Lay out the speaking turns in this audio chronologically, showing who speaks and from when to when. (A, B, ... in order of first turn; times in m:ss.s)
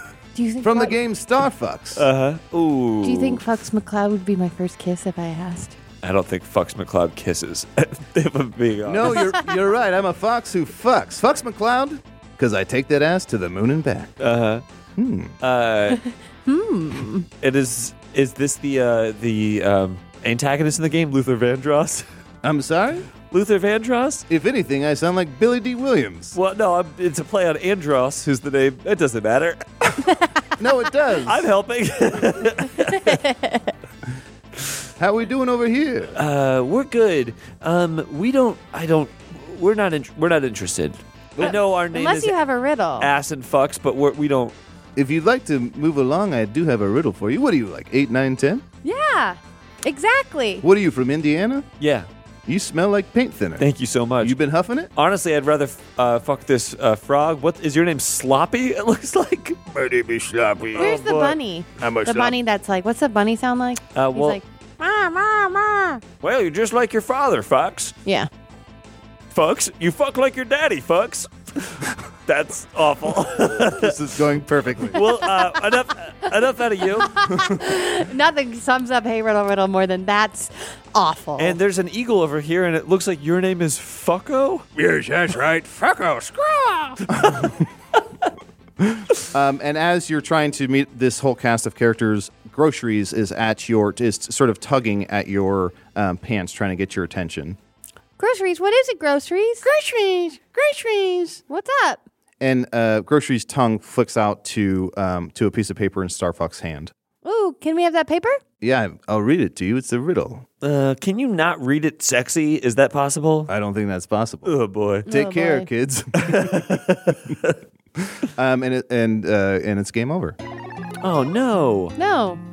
0:00.3-0:01.0 A
0:00.6-0:02.1 B
0:02.0-0:03.4 C
0:03.0-0:05.8 A
0:06.0-0:09.3 C
0:08.8-0:14.1 B
0:14.2-0:14.6 C
0:15.0-0:15.4 B
0:15.4-0:16.0 C
0:16.4-0:17.3 A
0:17.4-0:22.0 C
0:22.4-0:23.1 B
0:23.3-0:24.2 C
0:24.3-0:26.4 B
0:26.3-0:30.0 C
0:30.6-0:31.5 B
0:31.2-0:33.2 C
0:32.8-0:33.7 A
0:35.0-0:36.1 B
0:36.1-0:42.3 C
0:41.4-0:43.1 A
0:43.0-0:44.5 C
0:45.0-0:48.6 B
0:48.8-0:50.6 A
0:50.6-0:51.7 B
0:51.8-0:52.1 C
0:52.4-0:53.7 B
0:53.6-0:54.4 C
0:54.2-0:54.9 B
0:55.0-1:02.1 C
1:00.3-1:01.0 B
1:00.7-1:06.0 A
1:01.8-1:02.2 B
1:03.9-1:04.4 C
1:06.2-1:07.9 C
1:09.3-1:14.0 C
1:13.7-1:15.0 B
1:14.9-1:17.1 C
1:15.0-1:15.4 A
1:17.0-1:21.6 A
1:21.4-1:24.6 C
1:24.7-1:27.7 B
1:27.1-1:27.5 C
1:28.8-1:37.6 B
1:38.2-1:40.4 A
1:39.8-1:41.4 B
1:41.3-1:42.0 A
1:42.4-1:46.9 B
1:47.2-1:48.4 A
1:48.6-1:50.4 B
1:50.6-1:53.5 C
1:53.5-1:54.6 B
1:54.4-1:55.1 C
1:55.1-1:55.7 A
1:55.1-1:57.4 B
1:56.2-1:57.6 C
1:58.2-2:00.4 B
2:01.0-2:01.9 C
2:02.0-2:02.4 A